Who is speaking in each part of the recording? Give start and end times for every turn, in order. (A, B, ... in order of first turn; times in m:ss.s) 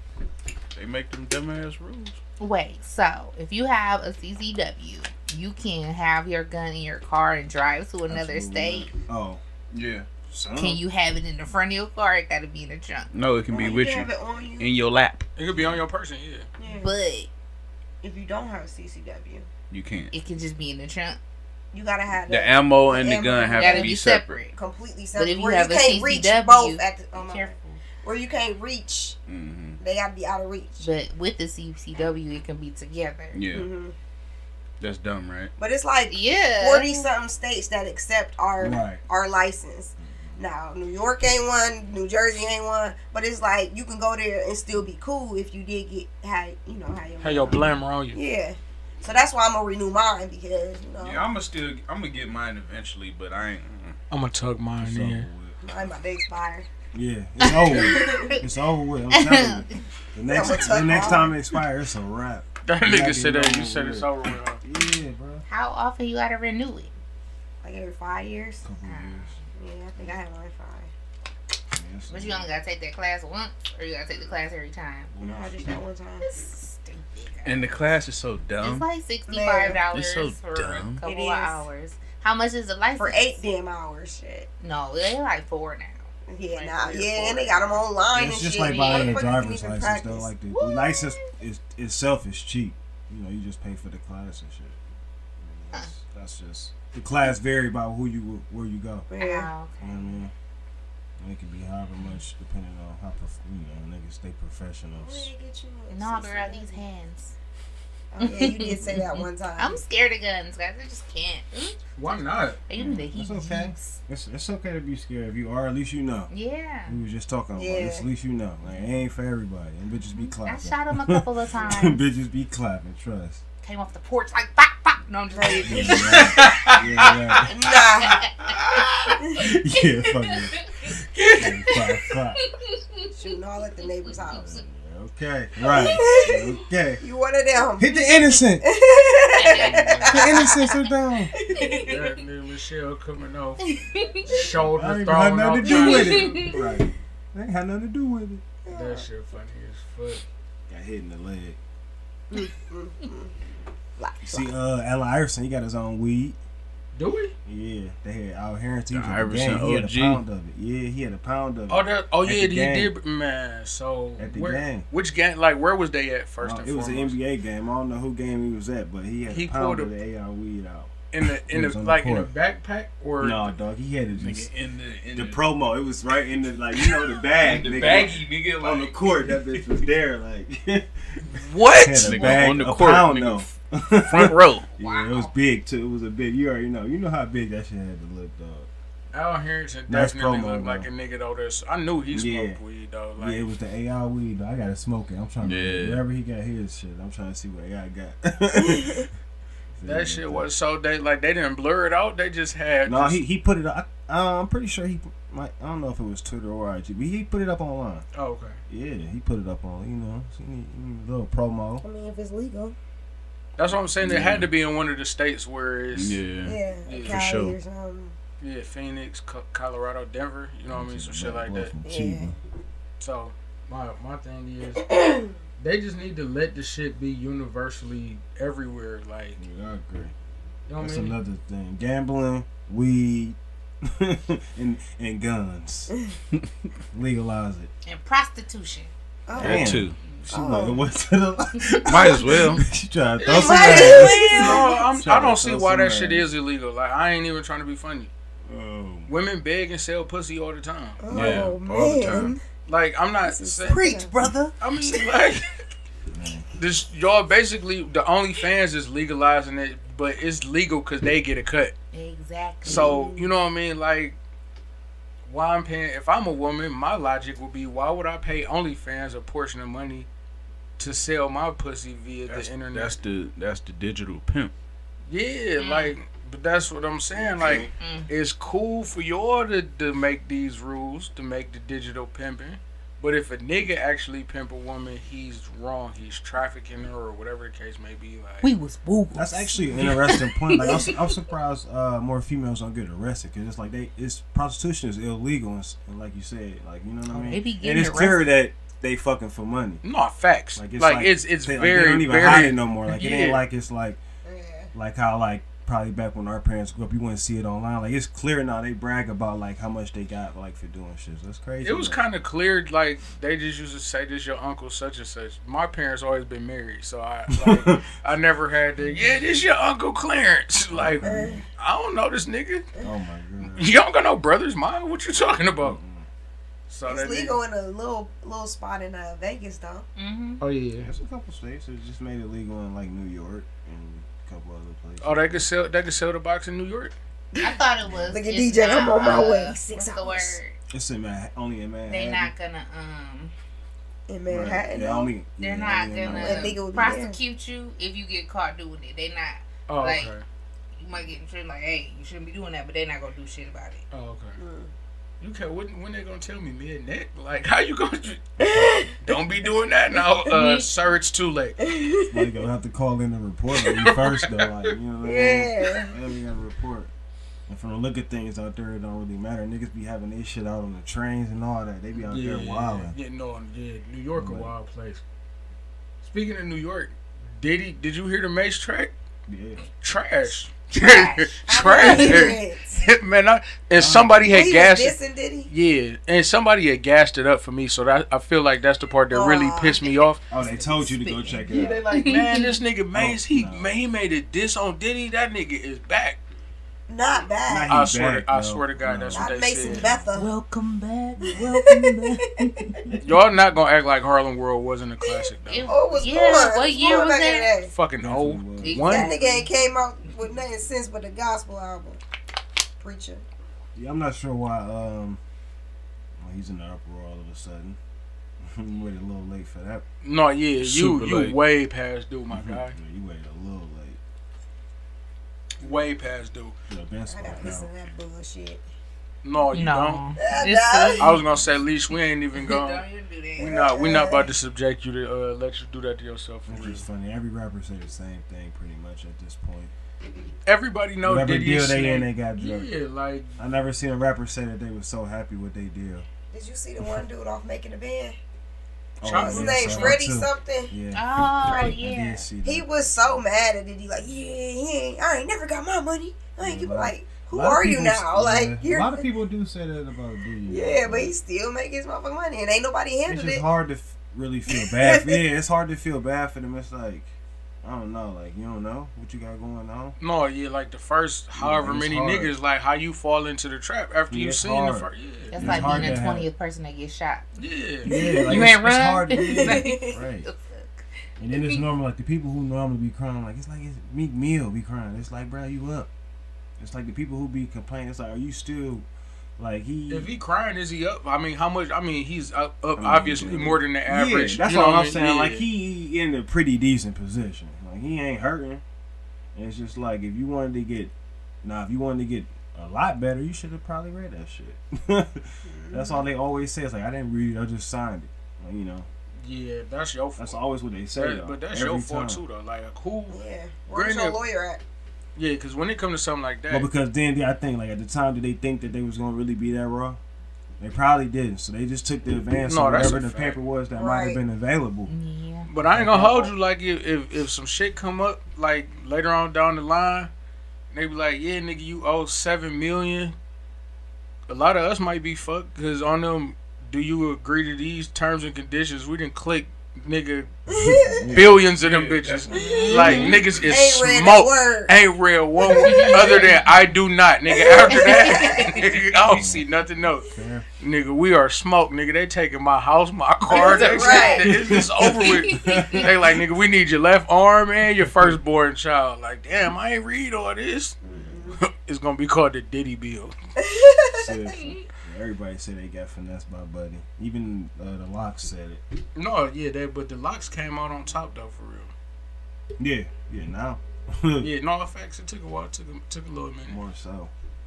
0:00.7-0:02.2 A
0:02.4-0:08.9 B
0:08.1-0:09.4 C
0:09.7-0:10.1 A
0:10.3-0:10.8 C
0:10.6-0:13.1 B
0:13.1-0:15.8 A
0:13.5-0:14.7 D
0:15.4-0:16.5 E
0:16.6-0:16.9 D
0:16.7-0:17.3 B
0:18.0-0:19.5 D
0:19.7-0:20.1 A
0:20.1-0:21.2 B
0:21.7-0:24.0 D
0:22.2-0:24.5 A
0:23.6-0:24.5 B
0:24.5-0:29.2 D
0:25.1-0:27.8 B
0:29.3-0:29.8 A
0:29.8-0:30.9 D
0:30.8-0:33.4 B
0:33.3-0:33.7 A
0:33.5-0:33.9 D
0:34.8-0:35.5 A
0:35.6-0:51.3 D
0:36.1-0:37.1 B
0:38.6-0:39.0 C
0:40.0-0:40.4 C
0:47.2-0:48.2 E
0:51.0-0:54.0 A
0:54.1-0:55.3 E
0:54.8-0:55.6 C
0:55.6-0:56.7 D
0:56.9-1:05.4 C
0:57.4-0:58.4 B
0:57.6-0:58.4 D
0:59.1-0:59.8 B
1:00.3-1:01.3 D
1:02.6-1:04.6 E
1:05.5-1:06.9 B
1:07.6-1:08.6 D
1:08.6-1:09.3 C
1:08.8-1:09.4 B
1:09.6-1:10.9 D
1:11.7-1:12.5 C
1:12.1-1:15.1 B
1:15.1-1:15.7 C
1:15.2-1:16.3 D
1:16.2-1:17.7 B
1:17.4-1:18.9 A
1:18.6-1:23.4 B
1:19.3-1:19.8 D
1:19.9-1:21.0 A
1:21.0-1:21.6 D
1:23.0-1:24.5 D
1:24.6-1:27.8 B
1:26.3-1:30.3 D
1:28.1-1:34.8 C
1:28.8-1:29.3 B
1:30.5-1:31.3 B
1:35.4-1:39.1 C
1:39.1-1:39.5 D
1:39.2-1:40.2 B
1:39.8-1:40.3 C
1:41.2-1:45.3 C
1:45.0-1:46.8 D
1:45.9-1:47.3 B
1:48.1-1:49.8 D
1:48.2-1:51.8 B
1:52.0-1:52.6 E
1:52.7-1:54.0 B
1:52.7-1:56.3 C
1:56.3-1:57.0 B
1:56.9-2:03.4 C
1:57.5-1:58.1 D
2:00.1-2:02.0 B
2:03.6-2:06.7 B
2:05.3-2:06.2 D
2:05.6-2:07.5 C
2:06.1-2:07.1 E
2:07.5-2:08.2 D
2:07.7-2:09.1 E
2:09.4-2:12.4 C
2:10.2-2:10.9 B
2:11.1-2:11.7 E
2:12.4-2:13.1 B
2:13.1-2:14.6 D
2:14.2-2:17.0 C
2:15.7-2:16.4 D
2:15.8-2:16.4 B
2:17.0-2:18.0 D
2:17.8-2:18.6 C
2:18.6-2:20.8 D
2:19.4-2:20.7 B
2:19.5-2:20.2 E
2:20.1-2:21.3 C
2:21.4-2:22.0 D
2:21.6-2:22.0 B
2:21.8-2:23.7 E
2:23.6-2:24.4 B
2:24.2-2:26.4 E
2:24.3-2:28.4 C
2:25.6-2:26.6 B
2:28.6-2:29.0 D
2:28.7-2:30.2 E
2:30.7-2:31.6 C
2:32.3-2:33.3 D
2:34.0-2:34.5 D
2:34.2-2:36.4 C
2:36.9-2:37.3 E
2:37.4-2:42.9 C
2:38.9-2:40.2 A
2:41.7-2:47.2 E
2:44.2-2:44.9 C
2:46.4-2:52.3 C
2:49.3-2:49.9 E
2:51.1-2:53.5 E
2:53.2-2:54.5 C
2:54.2-2:55.4 A
2:55.1-3:00.9 C
2:57.4-2:59.6 A
3:01.3-3:02.2 E
3:01.7-3:08.7 C
3:02.0-3:03.5 A
3:04.1-3:04.6 A
3:04.7-3:05.3 B
3:09.1-3:13.5 E
3:09.9-3:10.9 C
3:12.1-3:12.6 C
3:13.2-3:19.1 C
3:15.4-3:16.0 A
3:18.6-3:19.1 D
3:19.8-3:20.5 C
3:19.8-3:23.2 E
3:22.8-3:28.0 C
3:28.1-3:28.6 E
3:28.7-3:31.8 C
3:31.8-3:32.8 D
3:33.6-3:36.2 E
3:34.0-3:34.5 A
3:35.9-3:37.6 A
3:36.4-3:38.1 D
3:36.8-3:37.2 E
3:38.4-3:41.7 E
3:40.7-3:42.4 C
3:41.8-3:42.3 D
3:43.0-3:44.8 E
3:44.9-3:45.3 D
3:45.6-3:49.4 E
3:49.4-3:50.1 C
3:50.7-3:51.2 E
3:50.8-3:55.9 C
3:56.9-3:57.7 C
3:57.8-3:58.9 B
3:59.3-4:00.8 D
3:59.4-4:06.3 C
3:59.4-4:00.0 A
4:01.8-4:02.6 A
4:03.2-4:08.1 E
4:03.3-4:04.7 D
4:03.7-4:04.5 B
4:08.5-4:09.1 C
4:09.1-4:11.0 E
4:11.0-4:12.4 D
4:11.1-4:12.4 A
4:11.1-4:11.5 C
4:12.6-4:13.8 E
4:13.2-4:14.1 D
4:13.9-4:14.5 C
4:14.6-4:15.5 E
4:16.1-4:16.5 C
4:16.6-4:21.7 E
4:21.9-4:23.0 B
4:22.6-4:23.3 D
4:22.6-4:24.2 E
4:25.2-4:30.1 E
4:30.8-4:33.0 E
4:32.3-4:34.5 A
4:35.1-4:48.5 E
4:35.6-4:36.0 B
4:37.4-4:37.7 A
4:37.8-4:38.1 B
4:48.4-4:51.0 B
4:49.1-4:59.8 C
4:57.1-4:58.3 B
4:59.8-5:03.4 E
5:00.6-5:04.0 C
5:04.2-5:04.7 D
5:04.7-5:12.0 C
5:11.6-5:22.6 E
5:17.3-5:17.8 C
5:18.8-5:19.3 B
5:20.7-5:21.4 C
5:21.0-5:21.4 D
5:22.8-5:23.7 C
5:23.4-5:25.8 E
5:25.6-5:26.1 C
5:26.7-5:27.4 E
5:26.8-5:29.8 D
5:30.0-5:30.4 B
5:30.4-5:30.9 E
5:30.8-5:35.4 C
5:35.0-5:36.9 E
5:37.4-5:40.5 B
5:37.8-5:38.2 C
5:38.1-5:40.4 D
5:40.7-5:42.3 C
5:41.9-5:43.3 B
5:44.1-5:45.1 D
5:44.3-5:46.9 C
5:45.4-5:50.1 B
5:46.1-5:47.2 D
5:49.7-5:50.2 E
5:50.8-5:53.8 B
5:53.9-5:54.4 E
5:54.4-5:54.7 D
5:55.2-5:58.2 E
5:58.4-5:58.9 D
5:59.0-6:01.6 E
6:00.3-6:00.6 B
6:01.6-6:02.3 D
6:02.1-6:06.9 C
6:03.6-6:04.7 E
6:05.0-6:05.9 D
6:07.5-6:12.9 C
6:12.0-6:15.0 E
6:14.1-6:14.5 C
6:16.0-6:18.9 E
6:19.3-6:19.6 C
6:19.8-6:25.0 E
6:20.7-6:22.4 B
6:21.5-6:22.8 D
6:23.7-6:24.6 C
6:24.3-6:25.5 D
6:25.5-6:30.2 E
6:29.1-6:30.0 D
6:30.3-6:31.8 C
6:31.5-6:36.2 E
6:31.9-6:32.6 B
6:32.9-6:33.7 C
6:36.9-6:37.8 D
6:37.5-6:40.1 C
6:37.7-6:39.9 E
6:39.1-6:40.3 D
6:40.2-6:43.0 B
6:41.3-6:42.4 D
6:43.0-6:45.7 E
6:45.5-6:47.5 B
6:45.6-6:47.7 D
6:47.7-6:49.1 E
6:48.0-6:48.8 C
6:48.6-6:49.5 B
6:48.8-6:52.0 D
6:52.8-6:53.2 D
6:53.7-6:55.2 C
6:56.2-6:57.8 C
6:58.4-6:59.8 C
7:00.0-7:02.7 E
7:00.6-7:01.4 A
7:02.3-7:04.0 C
7:05.6-7:06.5 E
7:06.7-7:07.7 C
7:07.1-7:08.6 D
7:09.2-7:10.0 E
7:09.5-7:11.2 B
7:10.2-7:11.1 D
7:11.0-7:12.8 E
7:12.4-7:13.6 B
7:13.4-7:16.8 E
7:13.4-7:14.3 D
7:16.5-7:19.7 C
7:20.4-7:23.4 E
7:21.0-7:22.7 C
7:23.4-7:26.0 C
7:26.3-7:28.2 D
7:29.0-7:33.2 C
7:29.0-7:30.0 E
7:29.1-7:30.7 D
7:30.9-7:32.2 B
7:31.4-7:31.7 D
7:32.4-7:39.0 D
7:36.4-7:41.1 C
7:40.5-7:43.4 D
7:43.0-7:47.1 C
7:44.5-7:45.2 D
7:47.6-7:50.0 C
7:50.0-7:56.0 E
7:51.3-7:52.3 C
7:54.1-7:56.3 C
7:55.3-7:57.2 B
7:57.4-7:57.9 E
7:57.8-8:01.6 B
7:57.8-8:00.3 C
7:59.2-8:00.0 D
8:01.2-8:05.9 C
8:06.6-8:08.8 C
8:09.4-8:10.1 C
8:09.9-8:15.4 E
8:12.8-8:18.6 C
8:19.3-8:20.9 C
8:21.4-8:28.9 C
8:25.4-8:26.1 D
8:29.2-8:30.4 E
8:30.2-8:32.2 C
8:30.9-8:33.2 E
8:33.1-8:34.6 D
8:33.7-8:34.2 E
8:35.2-8:36.7 E
8:36.5-8:40.0 C
8:40.6-8:44.9 C
8:42.4-8:43.4 E
8:43.7-8:44.2 D
8:44.9-8:45.5 B
8:45.5-8:50.1 E
8:45.7-8:46.3 C
8:50.7-8:53.1 E
8:54.3-9:00.3 E
9:00.5-9:01.1 D
9:00.5-9:01.5 C
9:01.1-9:20.8 E
9:01.6-9:03.2 A
9:02.3-9:04.8 D
9:02.3-9:03.2 B
9:05.4-9:06.4 D
9:05.7-9:06.4 B
9:07.3-9:08.7 D
9:07.8-9:08.6 B
9:08.9-9:10.4 C
9:13.3-9:14.2 D
9:13.4-9:14.2 B
9:14.2-9:16.2 C
9:15.1-9:15.8 B
9:17.8-9:18.2 C
9:20.8-9:21.3 C
9:20.8-9:21.4 D
9:21.4-9:23.1 E
9:23.4-9:24.1 D
9:24.0-9:28.6 C
9:28.9-9:31.7 E
9:32.6-9:34.3 C
9:34.2-9:36.6 E
9:36.4-9:37.1 C